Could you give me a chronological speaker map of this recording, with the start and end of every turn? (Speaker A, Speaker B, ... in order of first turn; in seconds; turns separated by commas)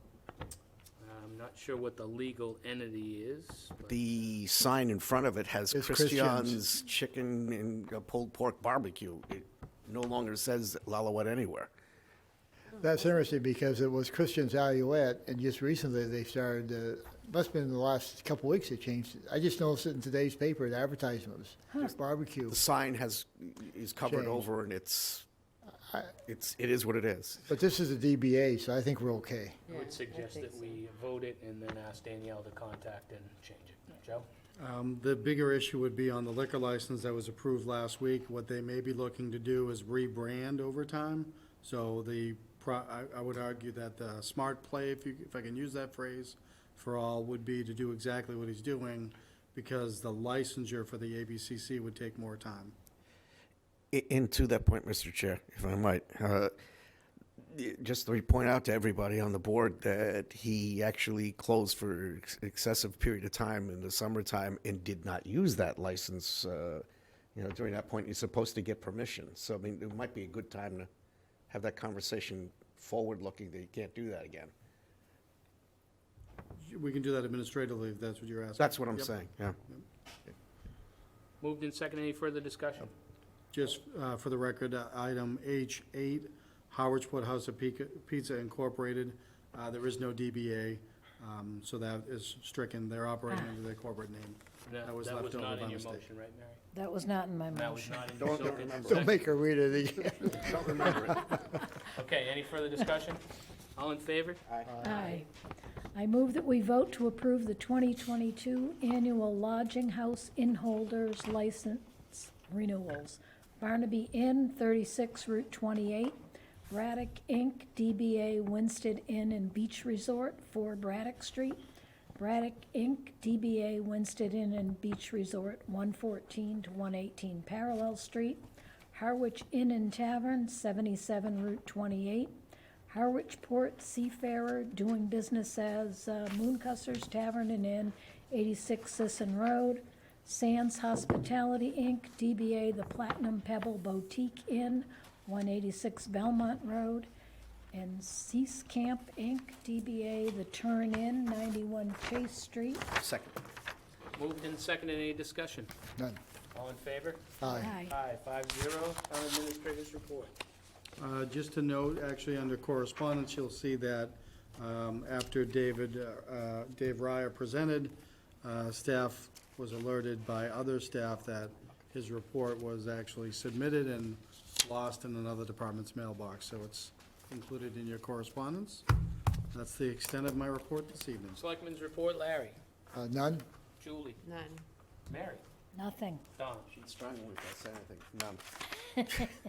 Speaker A: 1.0-4.1, Speaker B: 3.9-11.7, Speaker C: 5.7-6.6, Speaker C: 12.8-22.6, Speaker B: 22.5-25.2, Speaker C: 24.1-24.5, Speaker B: 26.2-27.5, Speaker C: 27.5-29.6, Speaker A: 29.7-34.3, Speaker D: 29.7-30.6, Speaker E: 34.5-52.8, Speaker B: 53.9-56.5, Speaker B: 57.4-70.9, Speaker B: 71.5-74.5, Speaker E: 76.6-79.8, Speaker B: 78.6-79.6, Speaker A: 81.4-82.9, Speaker E: 83.5-96.1, Speaker A: 94.7-96.6, Speaker D: 96.7-98.2, Speaker A: 97.5-99.3, Speaker B: 98.2-99.1, Speaker C: 98.8-101.1, Speaker B: 100.2-101.4, Speaker A: 101.8-103.2, Speaker A: 103.8-104.4, Speaker D: 104.8-105.3, Speaker D: 105.9-121.6, Speaker D: 122.2-132.4, Speaker D: 132.9-147.1, Speaker D: 147.7-152.9, Speaker B: 153.0-153.4, Speaker A: 154.2-155.7, Speaker A: 156.5-160.3, Speaker C: 157.4-157.7, Speaker D: 157.5-157.9, Speaker E: 161.0-178.8, Speaker E: 179.5-181.4, Speaker A: 181.3-182.6, Speaker C: 182.9-183.4, Speaker A: 183.8-184.2, Speaker D: 184.2-184.6, Speaker A: 185.1-185.4, Speaker D: 185.7-186.2, Speaker A: 186.3-186.7, Speaker B: 186.7-188.4